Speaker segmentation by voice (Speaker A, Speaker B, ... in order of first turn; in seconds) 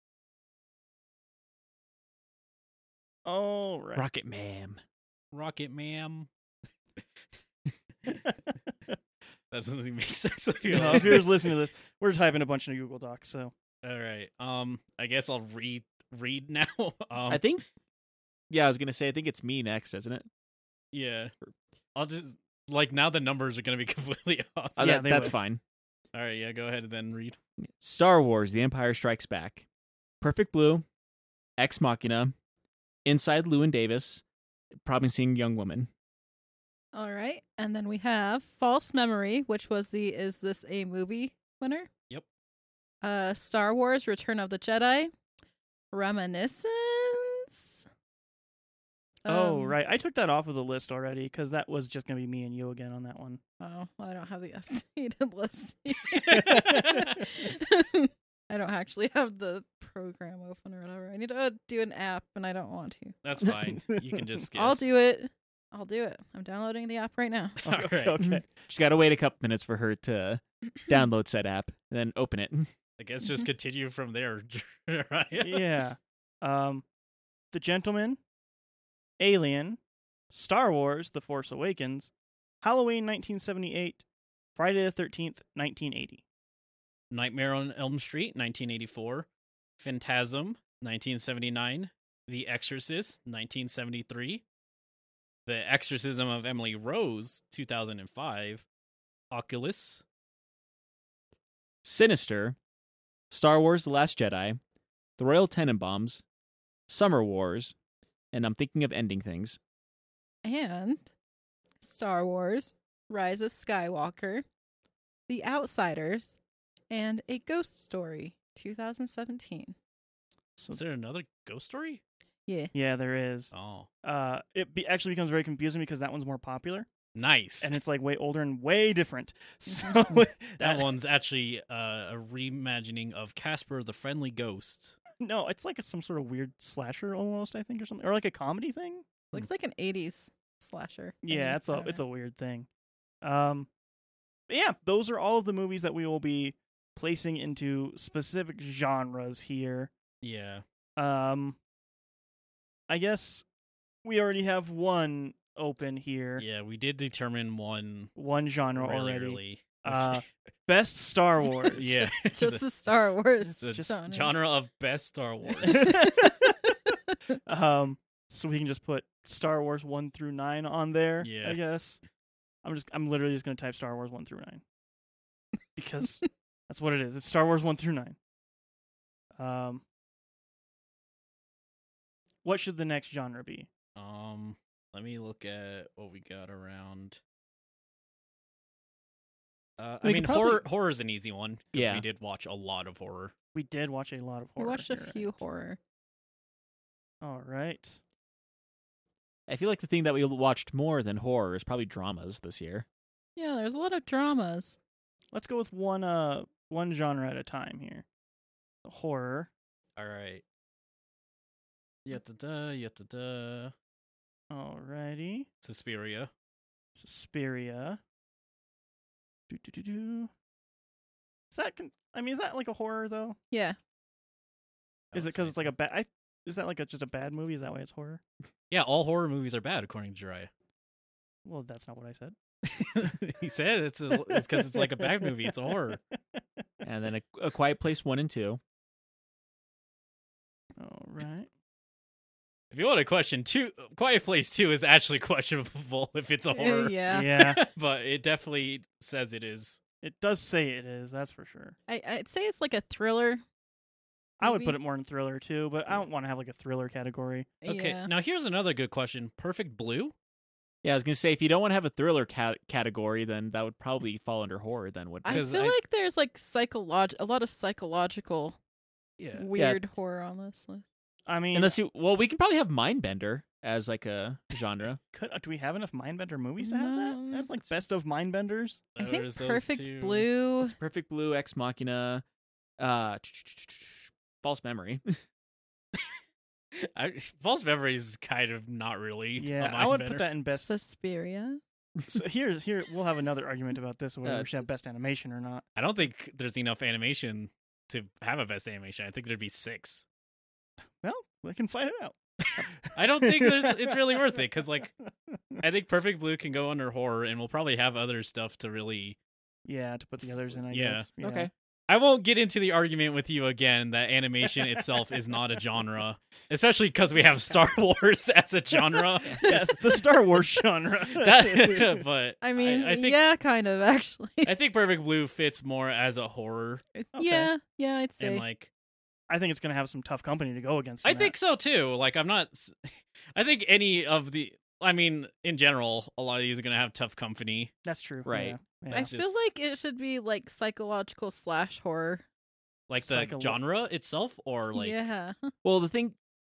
Speaker A: 3.2-4.0, 10.7-13.5, 24.8-25.4, 49.3-53.4, 56.3-57.0, 63.4-64.2, 67.7-68.5, 75.4-76.8, 77.5-78.2, 79.2-79.8, 80.3-82.1, 82.6-84.0, 84.5-86.2, 122.7-126.9, 127.6-130.9, 135.2-139.5, 141.2-142.7, 143.2-143.7, 144.5-149.9, 151.0-151.6, 152.9-153.5, 154.0-156.4, 158.2-161.8, 163.4-164.0, 165.7-166.7, 167.5-172.0, 172.6-174.6, 175.8-178.2, 179.4-179.8, 182.4-183.7, 193.5-195.4, 197.2-198.0, 205.3-208.1, 208.8-209.5, 214.5-215.5, 217.0-218.0, 219.5-220.3, 221.5-223.4, 225.1-228.2, 231.4-232.4, 234.3-235.3, 236.3-236.6, 240.8-241.5, 247.1-247.6, 250.0-251.8, 254.4-257.5, 271.3-271.8, 275.1-278.9, 289.4-290.8, 292.1-295.6, 301.0-304.4, 305.1-305.6, 309.7-311.5, 319.4-322.0, 327.1-327.5, 329.3-331.3, 337.9-339.1, 343.0-343.6
Speaker B: 4.0-4.8, 17.3-17.6, 18.5-20.3, 24.8-25.6, 27.6-29.6, 30.2-30.9, 31.6-32.3, 33.0-34.2, 34.8-35.9, 68.2-72.7, 101.8-102.6, 103.3-104.6, 105.2-106.2, 106.9-107.8, 108.3-109.6, 190.0-190.6, 191.7-192.1, 199.5-202.9, 236.8-238.6, 260.8-265.5, 269.6-269.8, 271.5-275.0, 280.6-282.2, 282.8-285.2, 294.2-294.5, 311.2-311.5, 338.3-338.6, 345.6-346.2
Speaker C: 5.3-6.3, 9.5-11.6, 13.8-17.4, 20.9-21.3, 22.0-25.3, 26.1-27.4, 56.1-57.2, 63.2-64.9, 67.7-68.2, 73.0-75.8, 87.1-89.3, 89.8-94.4, 95.5-98.7, 99.3-100.0, 120.7-122.0, 123.5-123.9, 127.2-127.8, 130.6-135.0, 150.2-150.6, 156.4-158.1, 158.7-160.2, 161.8-162.6, 163.6-165.9, 171.2-171.6, 184.0-187.2, 189.8-193.3, 210.0-210.4, 212.1-213.7, 215.6-216.3, 225.1-225.7, 228.7-230.5, 232.7-236.0, 242.7-249.8, 257.7-260.1, 265.3-265.8, 269.2-269.5, 278.9-280.3, 286.8-290.3, 295.8-300.1, 302.9-304.9, 305.6-309.2, 310.7-311.1, 311.9-319.4, 321.1-323.2, 324.4-326.8, 328.2-328.7, 331.0-337.7, 338.9-339.4, 342.9-345.0
Speaker D: 36.9-41.9, 43.0-45.1, 45.9-47.8, 49.2-49.8, 53.6-63.1, 64.6-67.6, 110.4-111.1, 111.8-114.5, 115.3-119.8, 122.5-122.7, 129.7-130.0, 139.3-142.0, 161.6-164.3, 165.5-166.1, 167.1-167.4, 194.6-195.8, 203.4-204.8, 223.5-223.8, 246.5-247.3, 251.9-253.4, 254.4-254.8, 257.6-258.1, 265.2-268.6, 269.4-270.8, 276.6-277.5, 279.0-280.8, 290.5-291.6, 319.3-319.8, 322.4-324.5, 327.0-328.4, 338.9-342.2, 344.8-345.5